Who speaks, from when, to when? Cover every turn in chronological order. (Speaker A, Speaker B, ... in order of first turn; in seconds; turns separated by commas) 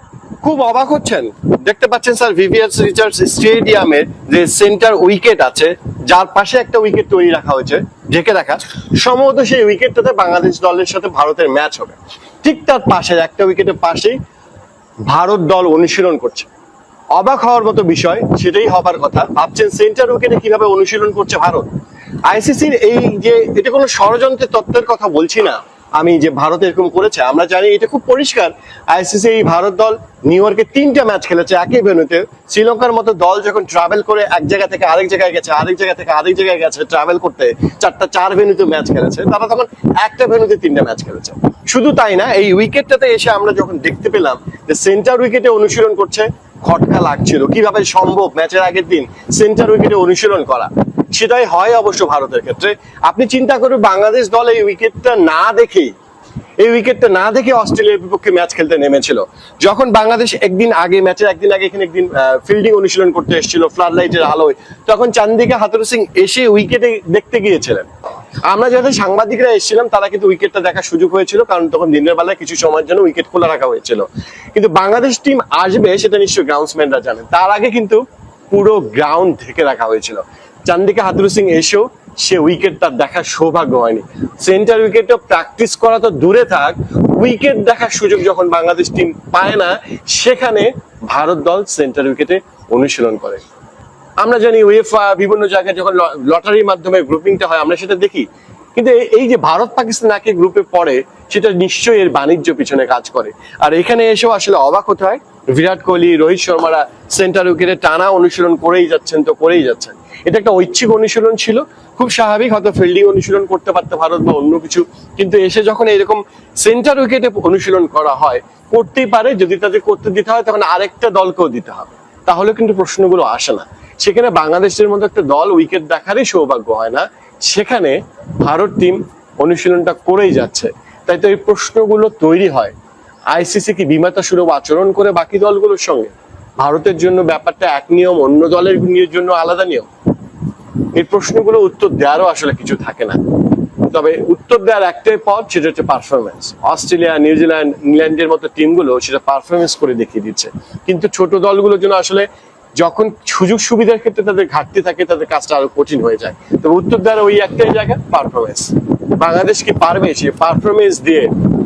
Speaker A: 0.4-14.2, Speaker A: 15.1-16.5, Speaker A: 17.1-21.7, Speaker A: 22.3-55.9, Speaker A: 56.6-67.9, Speaker A: 68.5-93.4, Speaker A: 94.2-132.7, Speaker A: 133.3-139.9, Speaker A: 140.9-143.2, Speaker A: 143.8-152.2, Speaker A: 152.8-161.3